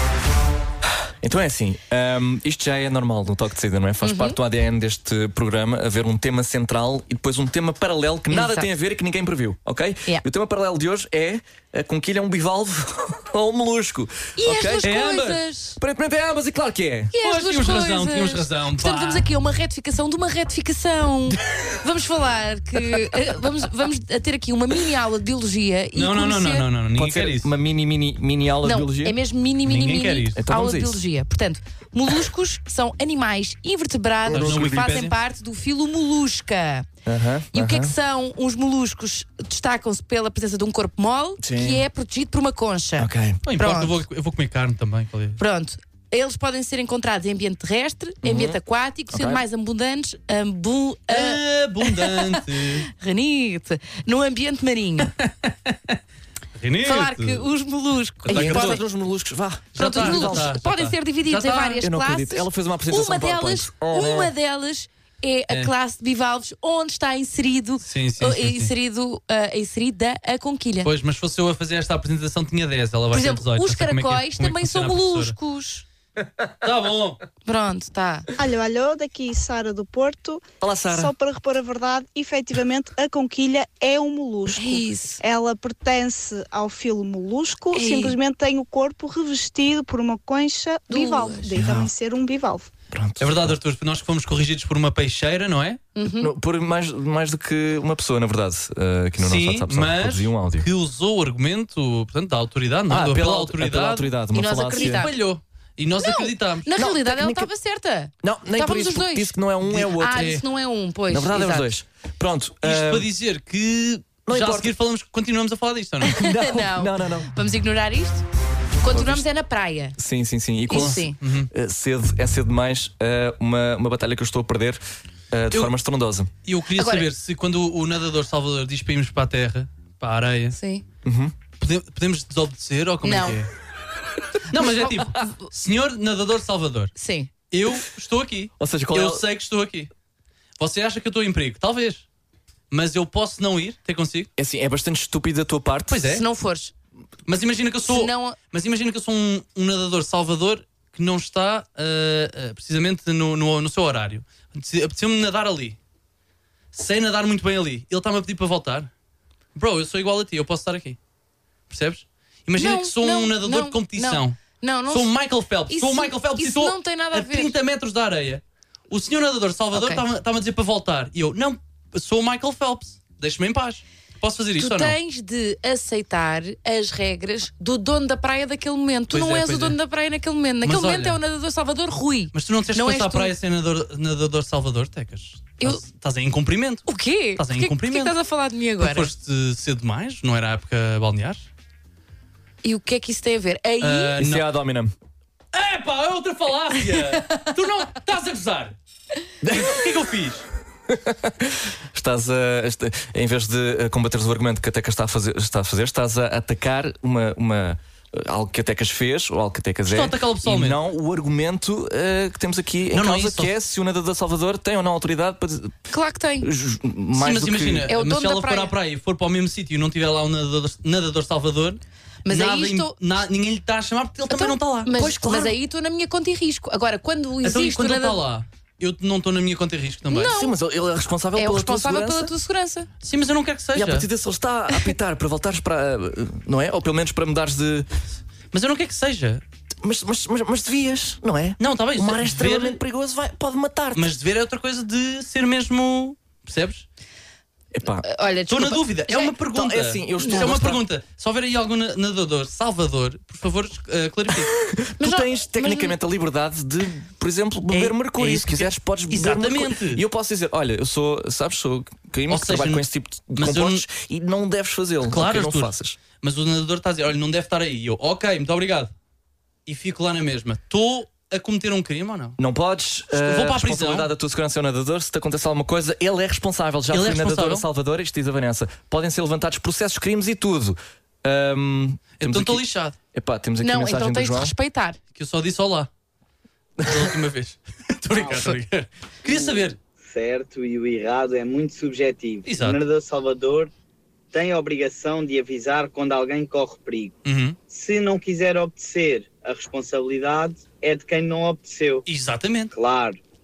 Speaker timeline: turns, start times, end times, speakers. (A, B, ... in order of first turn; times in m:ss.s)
0:00.8-0:14.9 A
0:04.0-0:04.4 B
0:08.3-0:08.7 B
0:14.4-0:15.8 B
0:14.8-0:15.5 C
0:15.8-0:17.1 A
0:17.1-0:26.7 B
0:17.2-0:19.3 C
0:25.9-0:27.5 C
0:26.9-0:29.2 A
0:28.6-0:36.9 B
0:29.6-0:30.4 C
0:30.3-0:31.0 A
0:34.2-0:35.0 A
0:34.3-0:35.2 C
0:37.0-0:37.9 A
0:37.5-0:44.0 B
0:41.4-0:41.8 A
0:43.0-0:43.4 A
0:43.4-0:45.4 C
0:45.4-0:55.1 B
0:48.2-0:48.6 A
0:49.1-0:49.4 A
0:51.1-0:52.9 C
0:55.0-0:56.0 C
0:56.5-0:57.5 C
0:56.8-0:58.8 B
0:58.2-0:58.8 C
0:58.3-1:00.5 A
0:59.7-1:01.8 C
0:59.8-1:10.9 B
1:01.8-1:04.3 A
1:07.8-1:08.7 C
1:10.8-1:15.4 C
1:13.1-1:15.8 B
1:16.6-1:17.2 C
1:17.4-1:18.3 B
1:18.4-1:32.7 D
1:20.6-1:21.1 A
1:24.5-1:25.2 B
1:27.7-1:28.2 B
1:30.9-1:31.6 B
1:31.5-1:31.9 A
1:32.9-1:33.6 A
1:33.2-1:35.8 C
1:36.0-1:36.3 B
1:36.0-1:40.7 A
1:39.2-1:44.1 C
1:42.9-1:45.1 A
1:44.3-1:45.1 B
1:44.7-1:46.7 C
1:46.0-1:51.7 B
1:46.7-1:47.5 A
1:48.2-1:50.4 A
1:49.7-1:50.4 C
1:51.1-1:53.1 A
1:52.6-1:56.2 C
1:54.2-1:54.7 A
1:56.1-1:58.2 B
1:56.1-1:57.3 A
1:58.8-2:00.0 B
1:58.9-1:59.2 A
2:00.0-2:04.8 A
2:00.7-2:01.2 B
2:00.7-2:01.5 C
2:05.3-2:06.3 A
2:06.4-2:10.6 C
2:06.8-2:07.1 B
2:10.5-2:10.8 B
2:11.0-2:11.3 A
2:11.6-2:13.5 C
2:13.0-2:13.4 B
2:14.5-2:16.9 C
2:14.6-2:15.5 B
2:17.0-2:17.3 B
2:17.5-2:19.9 C
2:18.6-2:19.2 A
2:20.6-2:22.0 C
2:22.7-2:24.3 C
2:24.4-2:26.1 A
2:25.9-2:26.2 C
2:26.0-2:26.7 B
2:27.2-2:35.8 C
2:27.8-2:28.4 B
2:36.7-2:38.9 C
2:39.5-2:41.0 C
2:41.7-2:55.0 C
2:42.6-2:45.1 B
2:45.7-2:47.5 B
2:49.7-2:50.0 B
2:54.6-3:03.3 B
2:59.1-2:59.8 C
3:00.6-3:01.2 C
3:02.3-3:08.1 C
3:06.8-3:09.1 B
3:08.8-3:11.5 C
3:12.6-3:14.2 B
3:13.8-3:14.5 C
3:14.2-3:14.9 A
3:15.5-3:18.8 C
3:16.9-3:17.4 B
3:19.4-3:19.9 A
3:19.5-3:20.4 C
3:20.9-3:35.7 A
3:29.9-3:30.8 C
3:32.9-3:33.5 C
3:35.9-3:36.5 B
3:36.4-3:37.9 A
3:37.2-3:45.0 C
3:37.9-3:38.7 B
3:42.2-3:42.9 B
3:44.3-3:48.2 B
3:44.9-3:45.5 A
3:47.4-3:50.3 C
3:50.1-3:50.5 B
3:50.3-3:52.3 A
3:51.4-3:52.9 B
3:53.0-3:54.1 C
3:53.7-3:57.9 A
3:58.5-3:59.4 C
3:59.8-4:04.1 A
4:01.6-4:02.8 C
4:03.9-4:06.8 C
4:07.7-4:08.1 A
4:08.0-4:09.3 B
4:08.5-4:14.5 C
4:09.4-4:10.8 A
4:10.2-4:10.5 B
4:14.5-4:26.0 A
4:15.0-4:16.0 B
4:17.7-4:20.0 C
4:22.3-4:22.8 C
4:23.4-4:23.8 C
4:25.0-4:28.9 C
4:29.6-4:32.4 C
4:32.4-4:44.5 A
4:33.1-4:34.1 C
4:36.9-4:37.6 C
4:42.2-4:43.0 C
4:43.6-4:45.0 B
4:45.1-4:45.9 C
4:46.8-4:47.1 A
4:46.8-4:49.8 C
4:50.0-4:53.7 E
4:52.4-4:52.8 C
4:54.3-4:57.1 E
4:57.2-4:57.6 C
4:57.7-5:02.0 E
5:02.0-5:02.7 C
5:02.7-5:03.2 E